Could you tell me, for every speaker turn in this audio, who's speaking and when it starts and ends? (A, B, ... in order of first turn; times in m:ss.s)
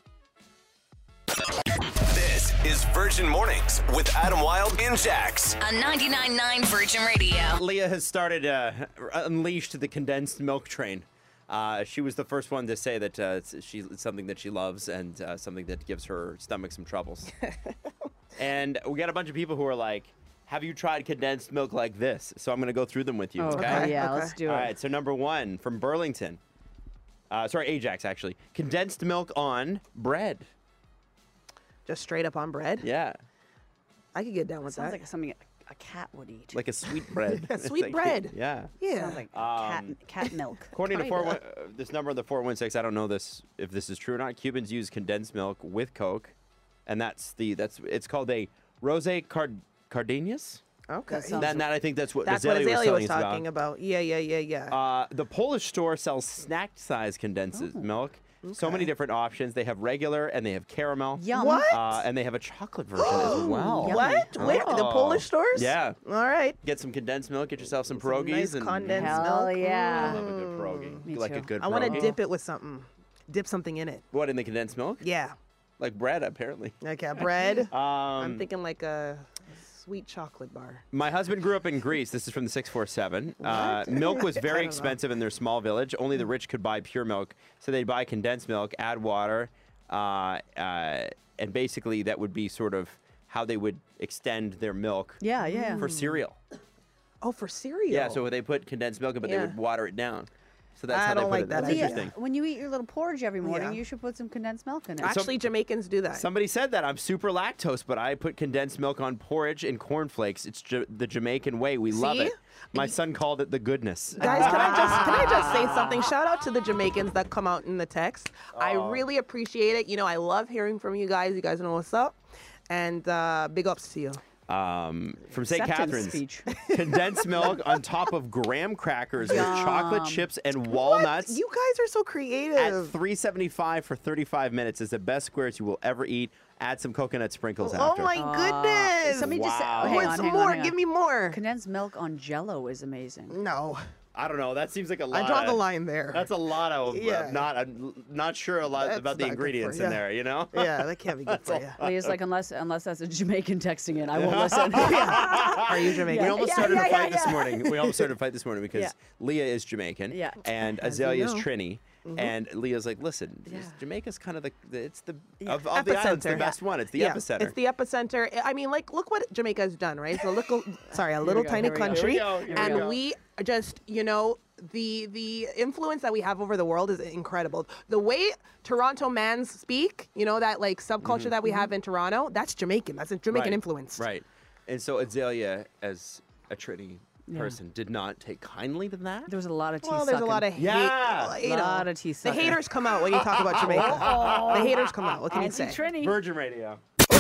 0:02.0-0:05.6 A
0:05.6-0:07.6 B
0:07.6-0:17.3 C
0:17.5-0:17.9 D
0:18.4-0:26.4 C
0:23.4-0:24.7 E
0:23.5-0:24.4 D
0:27.3-0:30.5 C
0:31.9-0:32.9 D
0:32.8-0:33.2 C
0:34.2-0:35.0 D
0:34.7-0:36.6 E
0:36.5-0:38.7 C
0:37.4-0:39.2 D
0:38.9-0:41.2 E
0:39.3-0:40.0 C
0:40.7-0:46.3 C
0:46.9-0:50.6 C
0:50.9-0:51.5 D
0:51.1-0:51.7 E
0:51.4-0:53.5 C
0:52.2-0:54.8 D
0:54.7-1:06.0 C
0:57.6-0:57.9 E
0:58.4-0:58.9 D
1:01.2-1:01.8 E
1:01.3-1:01.9 D
1:03.0-1:06.6 D
1:03.1-1:04.8 E
1:06.6-1:09.4 C
1:07.9-1:11.0 D
1:08.9-1:10.2 E
1:09.9-1:12.2 C
1:11.1-1:12.2 E
1:11.6-1:14.0 D
1:14.1-1:15.0 C
1:15.0-1:15.4 D
1:15.8-1:18.5 C
1:16.8-1:20.8 D
1:20.9-1:35.2 C
1:23.4-1:25.0 D
1:35.2-1:35.9 E
1:35.4-1:36.2 D
1:35.7-1:36.4 C
1:37.2-1:38.2 D
1:37.9-1:42.1 C
1:39.2-1:39.6 D
1:40.9-1:42.0 D
1:41.6-1:45.2 E
1:43.4-1:43.8 D
1:45.0-1:46.2 D
1:45.0-1:45.4 C
1:46.1-1:55.8 C
1:51.9-1:52.9 D
1:54.2-1:56.1 E
1:54.2-2:04.2 D
1:58.5-1:59.1 C
2:04.5-2:11.4 C
2:05.4-2:06.5 E
2:06.5-2:07.6 D
2:09.2-2:10.3 E
2:10.7-2:12.9 D
2:12.6-2:18.2 C
2:17.6-2:21.4 D
2:18.2-2:20.8 E
2:19.1-2:20.2 C
2:21.3-2:23.4 E
2:23.3-2:23.8 D
2:24.1-2:32.2 C
2:25.1-2:26.3 D
2:26.9-2:27.4 D
2:28.8-2:30.0 D
2:30.5-2:31.8 D
2:31.8-2:37.7 E
2:34.1-2:47.6 C
2:34.7-2:37.3 D
2:40.1-2:40.4 E
2:40.8-2:41.5 D
2:42.0-2:42.3 D
2:43.5-2:43.8 E
2:45.7-3:04.0 D
2:51.2-2:52.9 E
2:51.3-2:53.0 C
3:01.0-3:01.4 C
3:01.4-3:01.7 E
3:03.3-3:09.3 C
3:07.3-3:07.6 E
3:09.3-3:10.5 E
3:09.8-3:15.8 D
3:10.6-3:11.4 C
3:11.4-3:12.6 E
3:13.0-3:14.9 C
3:13.6-3:16.2 E
3:15.5-3:16.8 C